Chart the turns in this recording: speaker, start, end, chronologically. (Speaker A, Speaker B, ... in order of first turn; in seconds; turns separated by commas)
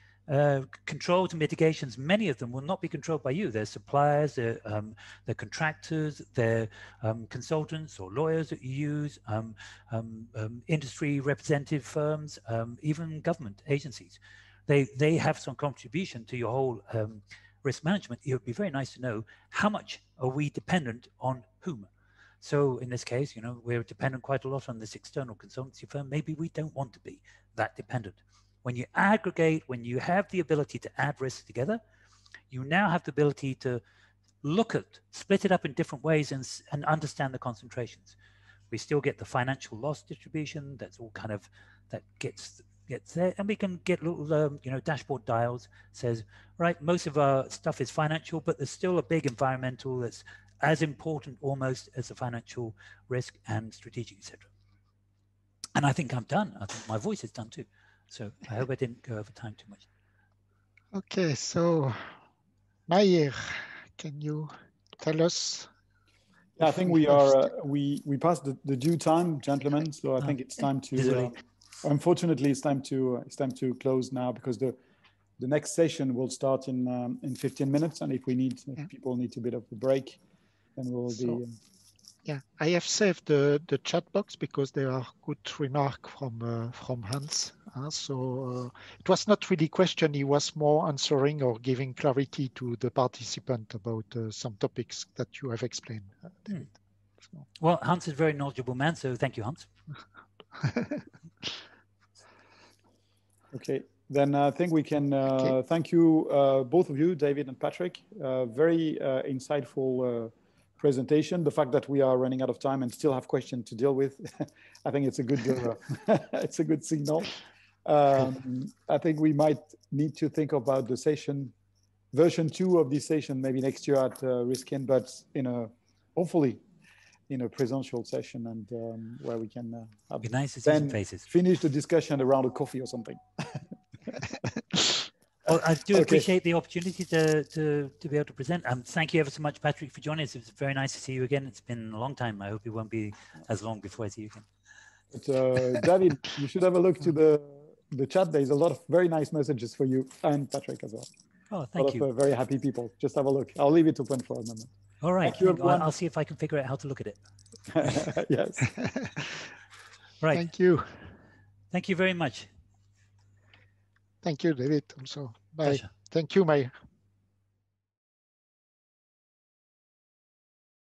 Speaker A: 0.3-21.9, Speaker A: 22.4-31.8, Speaker A: 32.5-33.8, Speaker A: 34.4-38.1, Speaker A: 38.7-54.5, Speaker A: 55.8-59.9, Speaker B: 60.9-62.1, Speaker B: 62.9-65.7, Speaker C: 66.6-74.8, Speaker B: 66.6-67.3, Speaker A: 70.9-71.3, Speaker C: 75.4-80.2, Speaker C: 80.8-81.6, Speaker B: 81.1-81.4, Speaker B: 82.2-96.6, Speaker A: 97.6-99.7, Speaker B: 100.6-101.0, Speaker C: 103.5-121.5, Speaker C: 122.1-126.6, Speaker C: 127.3-133.7, Speaker A: 130.2-131.3, Speaker A: 135.4-144.4, Speaker C: 135.9-136.3, Speaker C: 145.1-151.1, Speaker A: 151.5-152.1, Speaker C: 151.8-154.7, Speaker A: 155.0-157.2, Speaker C: 155.2-155.9, Speaker C: 157.7-158.8, Speaker B: 158.8-159.4, Speaker A: 160.2-160.4, Speaker B: 160.3-161.0, Speaker A: 161.7-162.5, Speaker B: 164.2-166.7